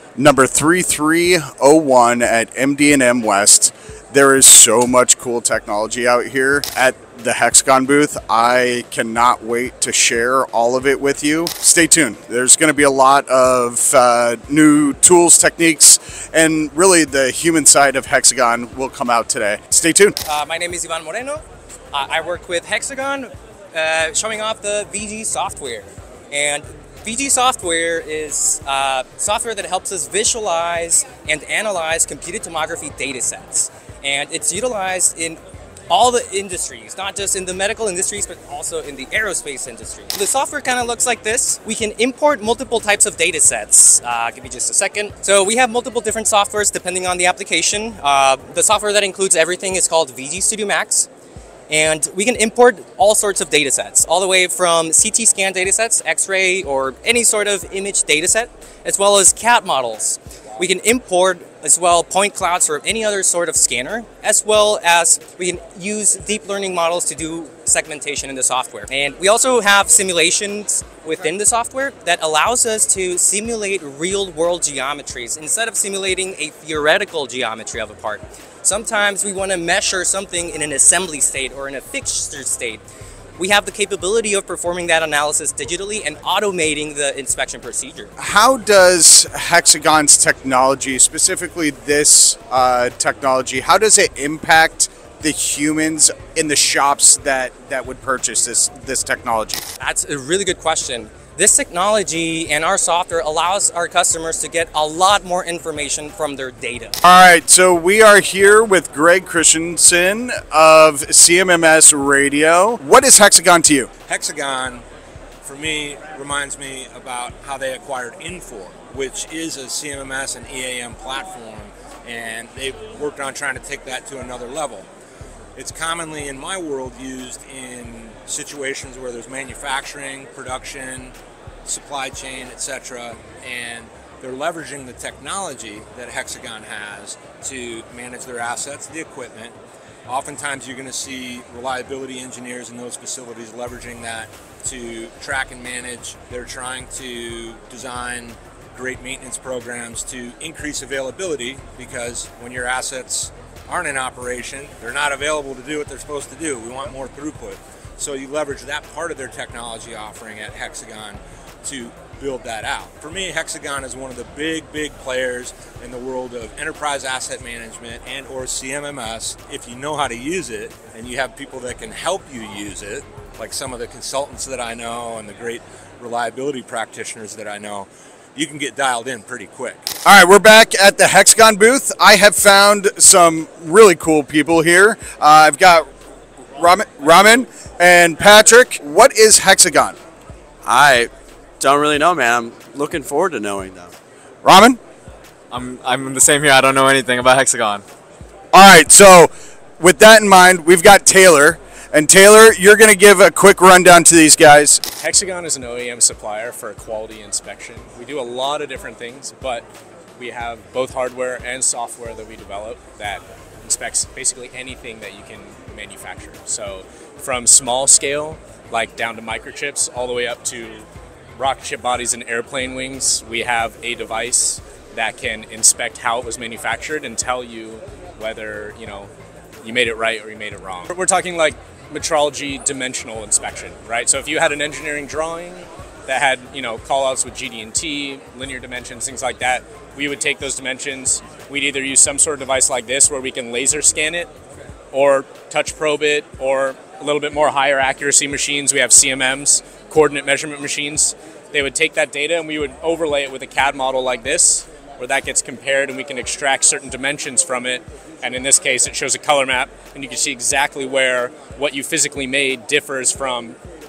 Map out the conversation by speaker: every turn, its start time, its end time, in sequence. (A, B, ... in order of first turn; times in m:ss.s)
0:00.2-0:20.2 A
0:20.2-0:35.4 B
0:35.9-0:51.1 B
0:51.7-1:22.8 B
1:23.4-1:28.1 B
1:28.2-1:39.6 A
1:39.8-1:47.0 B
1:47.0-1:53.9 A
1:54.1-1:54.8 C
1:55.4-2:04.9 C
2:05.6-2:11.1 C
2:11.6-2:19.6 C
2:20.1-2:59.9 C
3:00.0-3:05.9 A
3:06.6-3:10.0 A
3:10.6-3:13.9 D
3:14.4-3:14.8 A
3:15.5-3:17.8 E
3:18.5-3:24.8 A
3:24.9-3:29.6 F
3:30.2-3:49.1 F
3:49.6-4:04.3 F
4:04.9-4:23.6 F